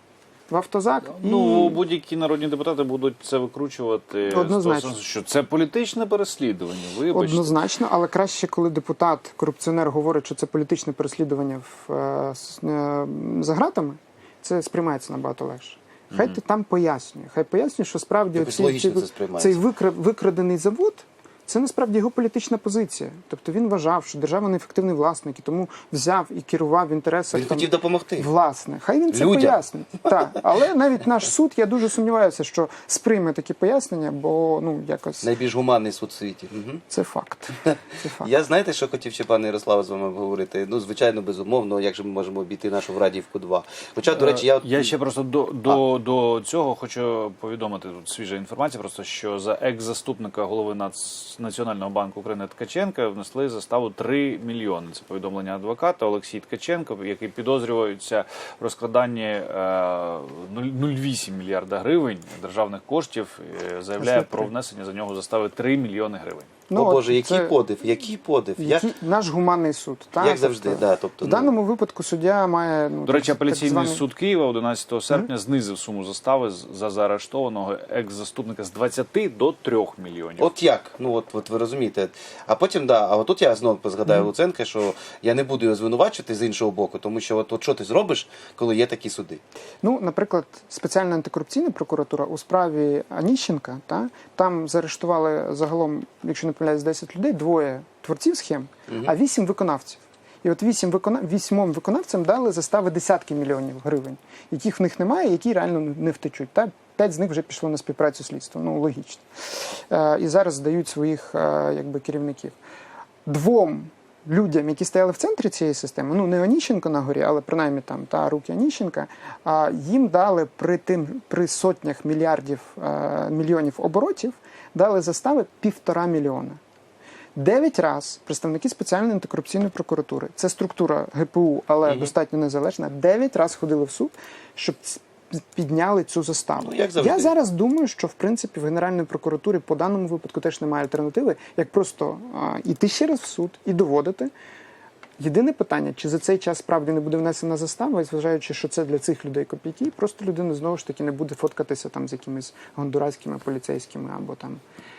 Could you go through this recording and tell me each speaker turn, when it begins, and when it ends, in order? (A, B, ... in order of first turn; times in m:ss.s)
0:00.5-0:01.8 A
0:01.1-0:07.6 B
0:04.3-0:04.9 A
0:07.1-0:35.3 A
0:18.3-0:19.6 C
0:27.3-0:28.3 C
0:29.1-0:30.2 C
0:35.2-0:36.8 C
0:36.9-0:38.3 A
0:37.6-0:44.9 C
0:44.1-1:06.5 B
1:04.0-1:04.5 A
1:06.7-1:07.6 A
1:06.7-1:08.9 C
1:08.6-1:14.0 A
1:10.2-1:11.5 C
1:13.0-1:20.5 B
1:20.4-1:29.4 C
1:29.8-1:52.6 A
1:38.9-1:39.1 C
1:53.2-2:06.6 A
2:07.4-2:24.3 A
2:16.6-2:17.3 C
2:25.2-2:34.6 A